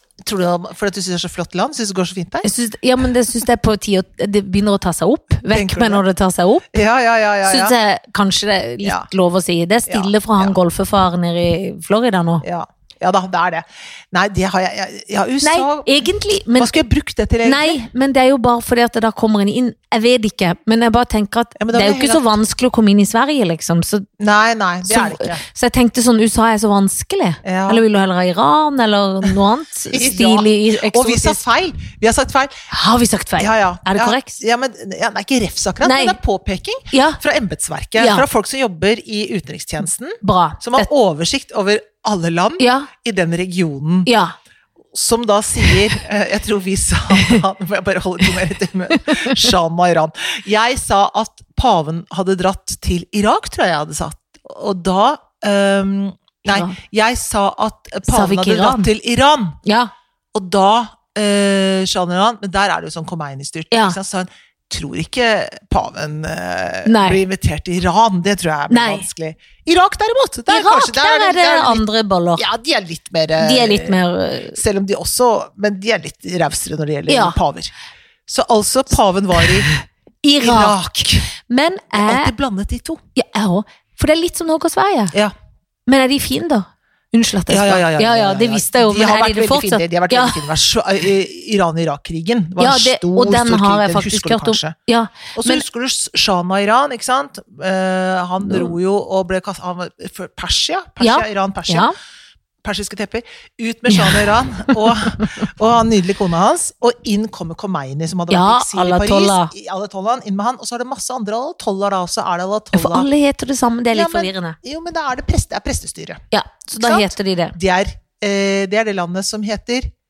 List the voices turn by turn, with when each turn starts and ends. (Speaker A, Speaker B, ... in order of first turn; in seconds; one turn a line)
Speaker A: 0.2-2.5
Speaker B: 2.4-6.7
Speaker A: 5.5-6.0
Speaker A: 6.7-7.8
Speaker B: 7.4-12.4
Speaker A: 8.8-9.1
Speaker A: 9.9-10.6
Speaker A: 12.4-16.0
Speaker B: 15.4-16.8
Speaker A: 16.6-17.8
Speaker B: 17.4-24.1
Speaker A: 21.6-22.3
Speaker A: 24.2-25.4
Speaker B: 24.9-31.4
Speaker A: 27.4-27.8
Speaker A: 29.9-32.6
Speaker B: 32.7-34.4
Speaker A: 33.4-44.1
Speaker B: 35.8-36.2
Speaker B: 36.9-37.2
Speaker B: 38.0-38.3
Speaker B: 40.2-40.9
Speaker B: 42.6-42.9
Speaker B: 44.1-44.4
Speaker A: 44.9-59.6
Speaker B: 49.0-49.5
Speaker B: 56.5-56.8
Speaker B: 58.1-58.9
Speaker B: 59.6-59.9
Speaker A: 60.3-71.8
Speaker B: 63.7-64.0
Speaker B: 66.9-67.2
Speaker B: 68.7-69.1
Speaker B: 70.5-72.4
Speaker A: 72.4-74.0
Speaker B: 73.4-74.6
Speaker A: 74.5-77.7
Speaker B: 77.1-77.4
Speaker A: 78.3-79.7
Speaker B: 79.6-82.3
Speaker A: 80.4-81.3
Speaker A: 81.9-83.0
Speaker B: 83.2-85.2
Speaker B: 85.9-90.5
Speaker A: 87.5-94.8
Speaker B: 92.6-95.6
Speaker A: 95.3-101.9
Speaker B: 98.4-98.7
Speaker B: 101.0-101.9
Speaker A: 102.6-113.1
Speaker B: 108.3-109.5
Speaker B: 112.7-114.6
Speaker A: 113.9-116.2
Speaker B: 116.3-117.6
Speaker A: 116.8-119.9